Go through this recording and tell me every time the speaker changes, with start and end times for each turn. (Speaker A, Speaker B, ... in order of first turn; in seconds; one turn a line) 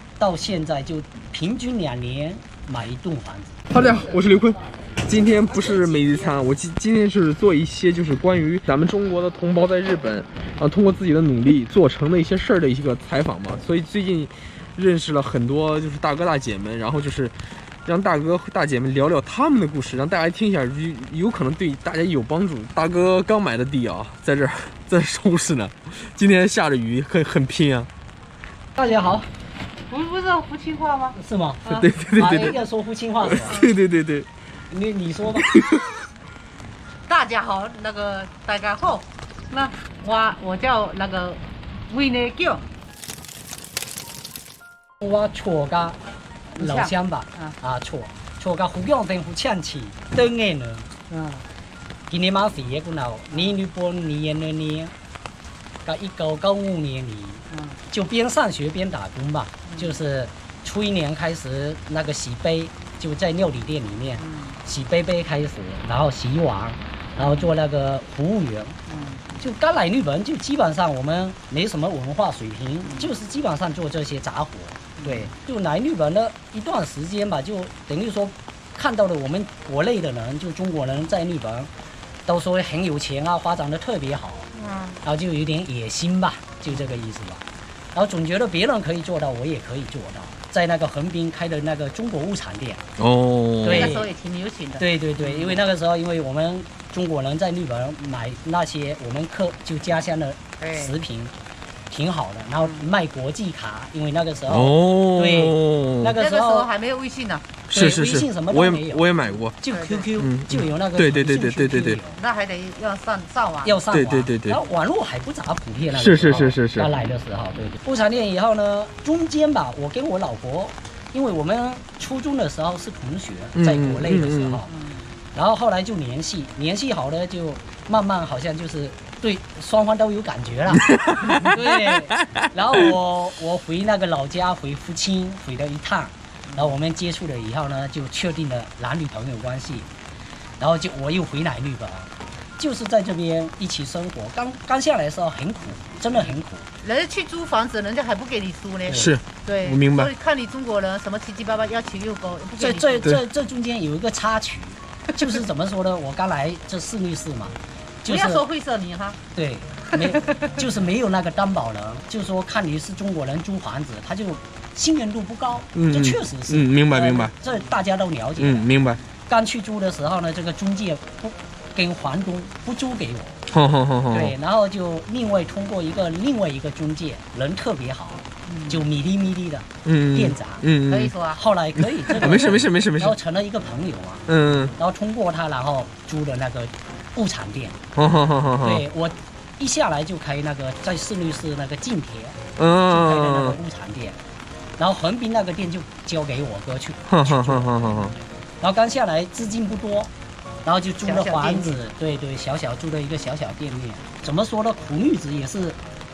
Speaker A: 0.2-3.6
Speaker B: 3.7-27.9
Speaker A: 28.8-29.3
Speaker C: 29.9-31.2
Speaker A: 31.2-33.6
Speaker B: 31.6-32.6
Speaker B: 33.3-34.3
Speaker A: 34.7-35.5
Speaker B: 35.4-35.8
Speaker C: 37.1-42.6
Speaker A: 45.0-46.0
Speaker A: 46.5-50.9
Speaker C: 46.6-47.6
Speaker C: 51.1-51.5
Speaker A: 52.1-54.9
Speaker A: 55.8-68.8
Speaker C: 57.5-57.8
Speaker C: 59.6-60.0
Speaker C: 64.2-64.6
Speaker C: 67.2-67.5
Speaker C: 68.9-69.3
Speaker A: 69.4-81.7
Speaker C: 72.8-73.1
Speaker C: 75.0-75.3
Speaker A: 82.3-84.5
Speaker C: 84.5-85.0
Speaker A: 85.0-92.8
Speaker B: 93.0-93.9
Speaker A: 93.6-94.1
Speaker C: 93.7-95.6
Speaker A: 94.8-101.3
Speaker C: 100.6-101.0
Speaker A: 101.9-106.7
Speaker C: 102.6-102.9
Speaker B: 104.5-106.2
Speaker C: 106.2-107.5
Speaker B: 107.7-109.5
Speaker A: 107.7-109.1
Speaker C: 109.2-110.1
Speaker A: 109.6-112.2
Speaker B: 110.2-112.0
Speaker C: 112.1-113.8
Speaker A: 113.7-124.7
Speaker B: 113.9-114.6
Speaker B: 115.9-116.9
Speaker B: 123.5-124.6
Speaker C: 124.7-125.1
Speaker A: 125.3-139.9
Speaker B: 131.0-131.4
Speaker C: 136.5-136.8
Speaker A: 140.6-146.7
Speaker C: 146.2-153.1
Speaker A: 148.9-149.1
Speaker B: 148.9-150.1
Speaker A: 152.6-158.4
Speaker C: 158.1-159.2
Speaker A: 159.3-168.7
Speaker C: 159.9-160.6
Speaker B: 165.7-167.3
Speaker B: 168.4-169.0
Speaker A: 169.3-173.4
Speaker B: 173.5-174.3
Speaker A: 174.1-180.7
Speaker C: 178.5-178.8
Speaker B: 179.8-181.1
Speaker C: 180.9-181.4
Speaker A: 181.3-187.8
Speaker B: 181.8-183.2
Speaker B: 184.3-184.7
Speaker B: 188.0-188.8
Speaker A: 188.6-194.2
Speaker B: 192.6-193.6
Speaker A: 194.8-200.1
Speaker B: 197.1-198.1
Speaker A: 200.7-205.8
Speaker C: 201.0-201.8